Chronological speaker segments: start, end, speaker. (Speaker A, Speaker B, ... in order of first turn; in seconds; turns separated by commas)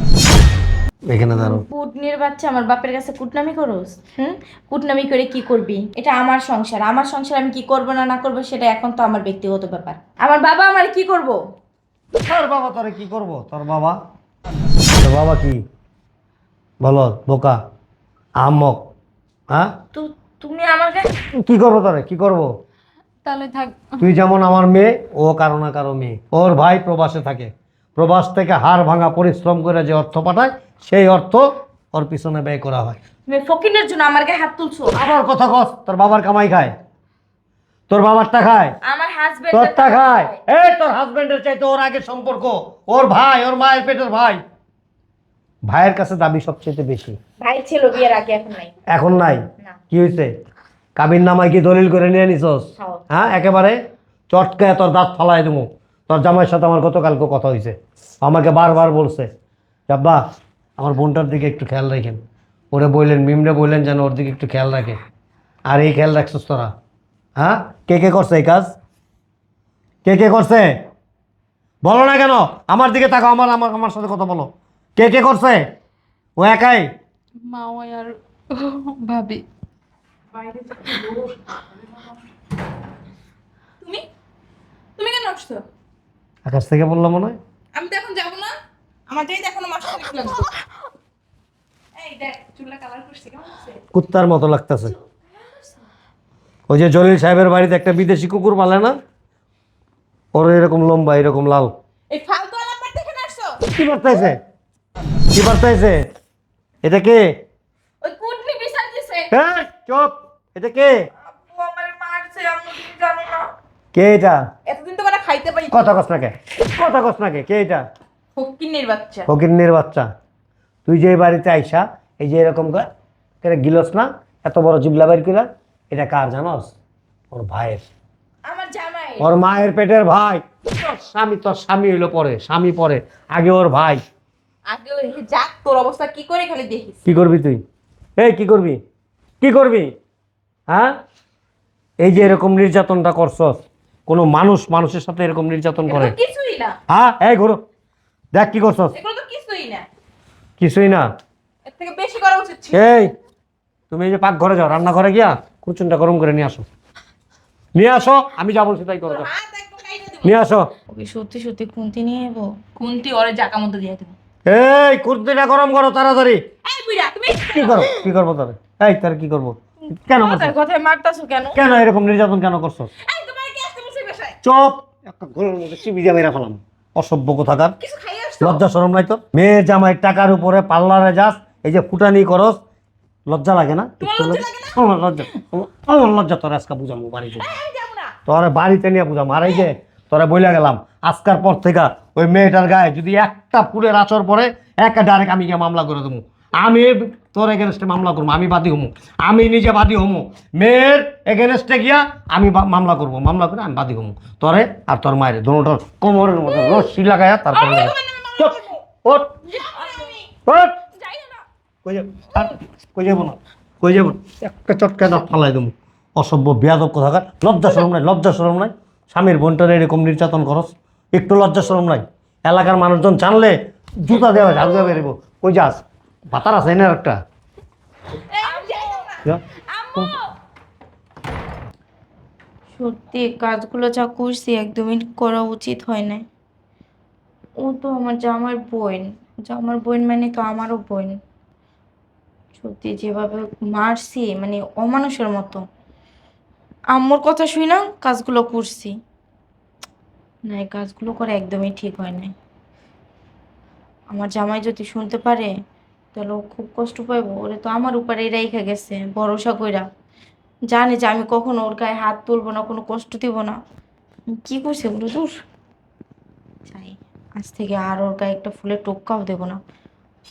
Speaker A: 1.1-1.6, Speaker B: 1.3-11.4, Speaker A: 12.2-14.0, Speaker A: 15.0-15.6, Speaker A: 16.8-17.6, Speaker A: 18.4-18.8, Speaker B: 19.9-21.1, Speaker A: 21.3-22.5, Speaker C: 23.2-24.1, Speaker A: 24.0-33.0, Speaker B: 33.3-35.0, Speaker A: 34.9-36.7, Speaker A: 37.9-38.8, Speaker B: 38.8-40.4, Speaker A: 39.5-44.4, Speaker A: 45.7-47.2, Speaker B: 47.4-48.7, Speaker A: 48.9-50.3, Speaker A: 51.0-59.3, Speaker A: 59.9-60.2, Speaker A: 60.8-62.2, Speaker A: 62.7-65.0, Speaker A: 65.7-66.7, Speaker A: 67.4-68.7, Speaker A: 70.0-70.7, Speaker A: 71.8-75.7, Speaker A: 76.4-76.9, Speaker C: 77.5-79.4, Speaker D: 80.4-81.2, Speaker D: 85.0-85.6, Speaker A: 86.5-87.4, Speaker D: 87.7-88.5, Speaker D: 89.1-90.6, Speaker D: 92.0-93.8, Speaker A: 93.9-94.9, Speaker A: 96.7-99.0, Speaker A: 100.3-101.7, Speaker D: 102.1-103.6, Speaker A: 103.8-104.4, Speaker A: 105.3-106.1, Speaker A: 106.8-107.3, Speaker D: 108.0-109.3, Speaker A: 109.3-110.9, Speaker B: 111.3-113.5, Speaker A: 113.9-114.4, Speaker D: 114.7-115.7, Speaker A: 115.7-117.8, Speaker D: 118.3-119.3, Speaker A: 119.3-120.1, Speaker A: 120.8-122.9, Speaker A: 123.4-126.7, Speaker A: 127.3-127.8, Speaker B: 128.4-129.3, Speaker A: 129.2-134.0, Speaker D: 134.7-137.0, Speaker A: 137.1-137.6, Speaker A: 138.2-138.8, Speaker A: 139.4-139.9, Speaker A: 140.7-140.9, Speaker A: 142.0-146.2, Speaker D: 145.9-146.8, Speaker A: 146.9-147.6, Speaker A: 148.3-148.9, Speaker D: 148.9-149.8, Speaker A: 150.6-151.1, Speaker D: 151.6-152.8, Speaker A: 152.7-153.1, Speaker A: 153.9-156.7, Speaker A: 157.7-159.3, Speaker D: 159.1-160.4, Speaker A: 160.2-160.7, Speaker B: 160.9-162.5, Speaker D: 162.8-164.1, Speaker A: 164.4-166.4, Speaker D: 166.6-168.1, Speaker A: 167.5-170.5, Speaker B: 170.2-171.6, Speaker A: 171.6-172.9, Speaker D: 173.1-174.3, Speaker A: 174.4-177.8, Speaker D: 177.8-178.6, Speaker A: 178.4-182.6, Speaker A: 183.3-187.6, Speaker D: 184.0-184.8, Speaker D: 187.4-188.1, Speaker A: 188.2-209.4, Speaker D: 206.5-206.9, Speaker D: 207.5-208.8, Speaker D: 209.5-210.2, Speaker B: 209.7-210.2, Speaker A: 210.4-210.8, Speaker B: 211.0-211.4, Speaker A: 211.8-227.2, Speaker D: 228.4-229.2, Speaker B: 228.4-229.2, Speaker B: 229.7-230.3, Speaker B: 232.8-236.2, Speaker B: 237.6-241.1, Speaker B: 242.6-245.6, Speaker B: 246.9-248.9, Speaker B: 250.5-252.3, Speaker B: 254.1-255.5, Speaker B: 256.1-259.8, Speaker B: 260.7-263.6, Speaker B: 264.3-265.3, Speaker B: 266.7-269.6